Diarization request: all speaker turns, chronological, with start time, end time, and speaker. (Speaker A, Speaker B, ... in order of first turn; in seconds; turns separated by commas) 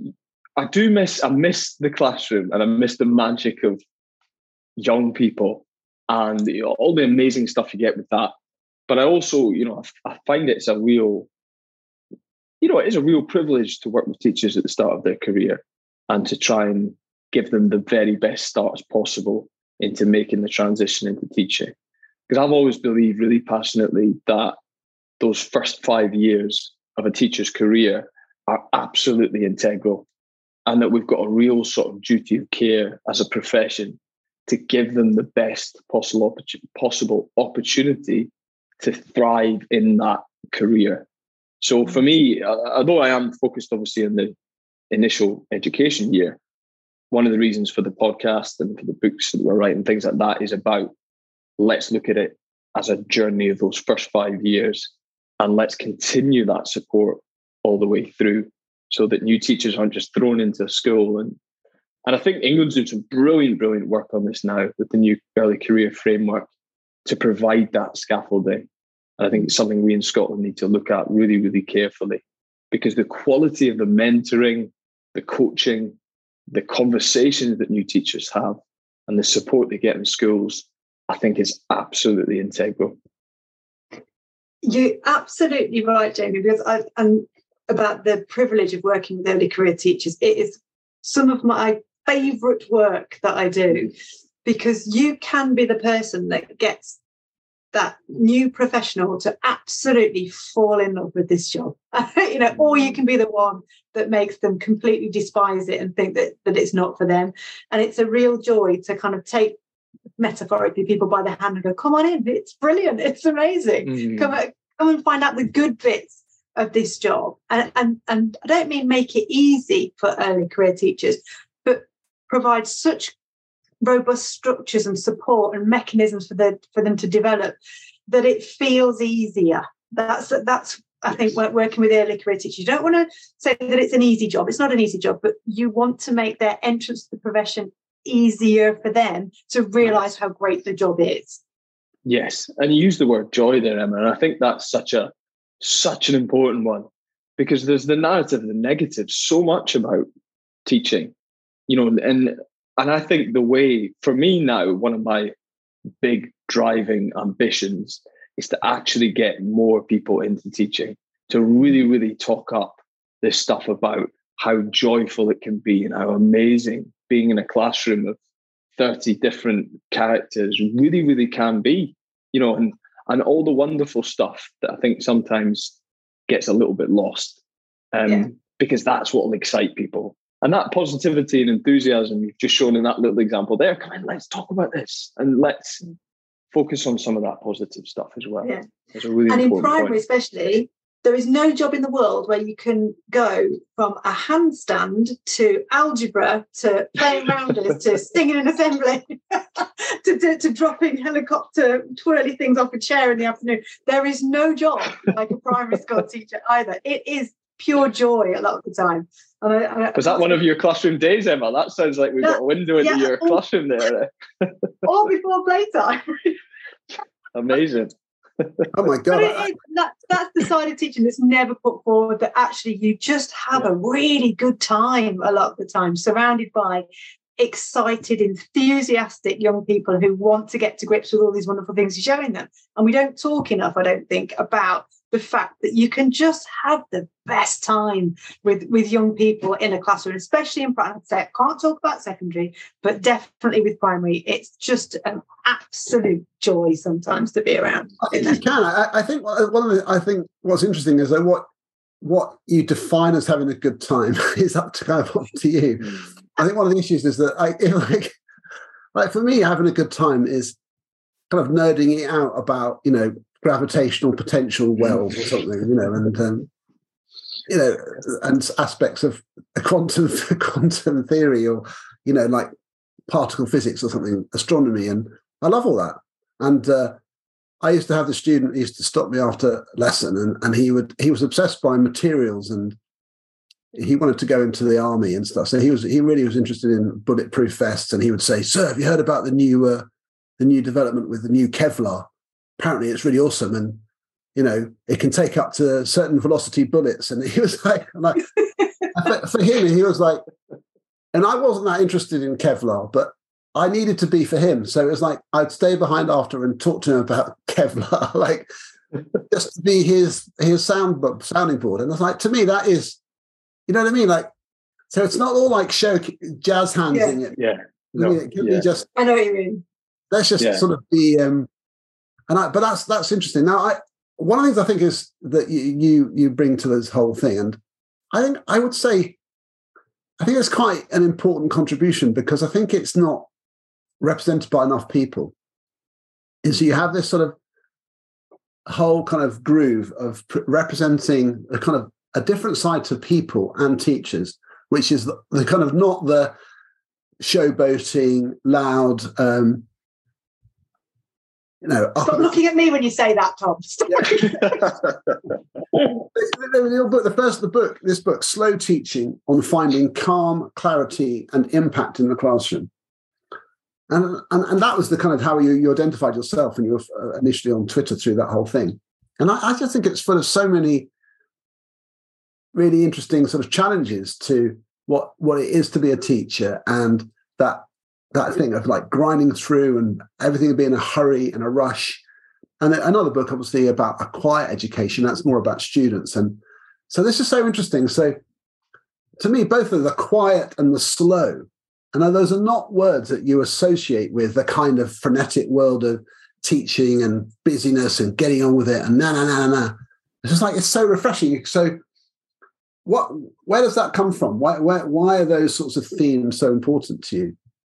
Speaker A: 0.6-3.8, Speaker A: 4.8-8.3, Speaker A: 8.9-11.3, Speaker A: 12.6-21.7, Speaker A: 22.3-24.6, Speaker A: 25.2-30.1, Speaker A: 30.7-41.1, Speaker A: 41.6-44.4, Speaker A: 44.9-46.4, Speaker A: 47.1-50.9, Speaker A: 51.6-61.4, Speaker A: 62.1-66.5, Speaker A: 67.0-68.7, Speaker A: 69.2-76.0, Speaker A: 76.5-83.0, Speaker B: 84.6-93.9, Speaker B: 94.5-97.0, Speaker B: 97.7-109.6, Speaker B: 110.2-123.2, Speaker A: 113.9-114.3, Speaker B: 123.8-127.6, Speaker B: 128.1-141.4, Speaker A: 142.1-150.1, Speaker A: 150.7-151.1, Speaker A: 151.7-155.3, Speaker A: 156.0-168.2, Speaker A: 168.8-175.8, Speaker A: 176.3-177.4, Speaker A: 177.9-185.8, Speaker A: 186.5-190.0, Speaker B: 189.3-210.4, Speaker A: 209.9-214.7, Speaker B: 212.2-213.4, Speaker B: 214.8-216.4, Speaker A: 217.3-218.7, Speaker C: 218.7-219.5, Speaker B: 219.1-226.9, Speaker B: 227.4-248.4, Speaker C: 248.0-251.5, Speaker C: 252.0-258.2, Speaker C: 258.9-260.6, Speaker C: 261.3-266.5, Speaker C: 267.5-272.5, Speaker C: 273.1-277.0, Speaker C: 277.6-282.8, Speaker C: 283.7-289.9, Speaker C: 290.4-292.1, Speaker C: 292.6-293.8, Speaker C: 294.4-298.3, Speaker C: 298.9-300.2, Speaker C: 301.1-308.5, Speaker C: 309.3-313.0, Speaker C: 313.7-314.3, Speaker C: 314.9-317.4, Speaker B: 316.9-317.2, Speaker A: 317.4-318.7, Speaker C: 317.9-318.9, Speaker B: 318.9-319.6, Speaker C: 320.1-321.5, Speaker A: 320.4-320.7, Speaker C: 322.3-327.6, Speaker C: 328.1-329.2, Speaker C: 330.2-333.3, Speaker C: 334.0-335.3, Speaker C: 336.4-337.4, Speaker C: 338.7-346.4, Speaker C: 347.2-349.6, Speaker C: 351.6-352.4, Speaker B: 352.1-354.7, Speaker C: 355.9-362.7, Speaker C: 363.9-370.9, Speaker C: 372.5-382.0, Speaker C: 382.6-388.2, Speaker C: 389.2-401.8, Speaker C: 402.9-407.4